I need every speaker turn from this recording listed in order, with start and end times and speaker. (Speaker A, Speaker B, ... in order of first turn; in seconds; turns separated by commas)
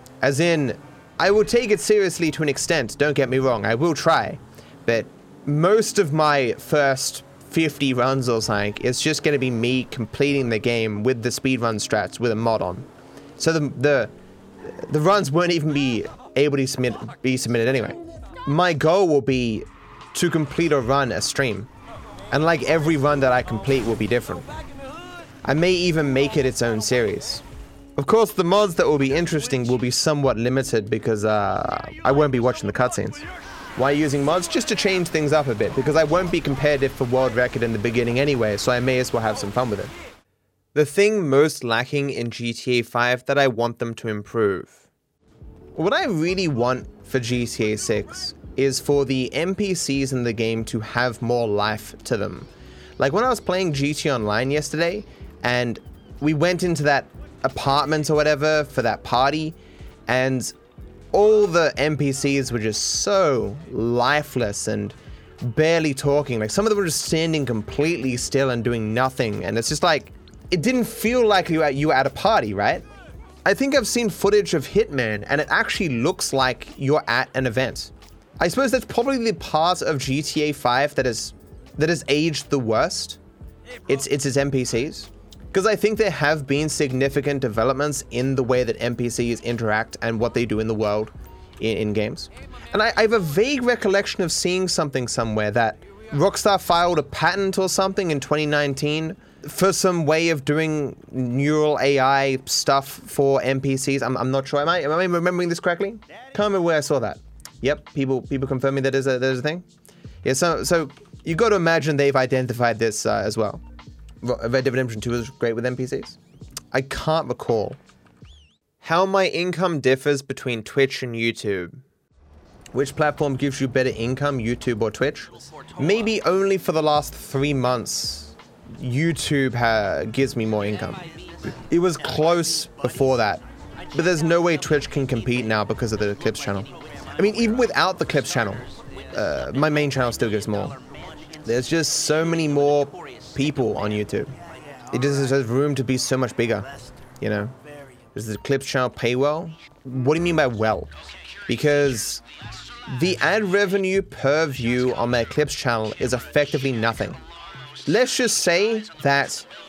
Speaker A: 0.2-14.1, Speaker A: 14.7-21.7, Speaker A: 22.3-24.5, Speaker A: 25.4-27.4, Speaker A: 28.0-33.2, Speaker A: 33.8-39.9, Speaker A: 40.8-44.9, Speaker A: 45.8-60.5, Speaker A: 61.1-72.9, Speaker A: 73.5-83.2, Speaker A: 83.9-109.7, Speaker A: 110.2-113.6, Speaker A: 114.2-116.2, Speaker A: 116.7-117.8, Speaker A: 118.8-121.8, Speaker A: 122.7-133.4, Speaker A: 133.9-140.8, Speaker A: 141.4-144.3, Speaker A: 144.9-146.7, Speaker A: 147.2-147.6, Speaker A: 148.1-150.9, Speaker A: 151.5-152.2, Speaker A: 152.9-157.2, Speaker A: 157.9-159.5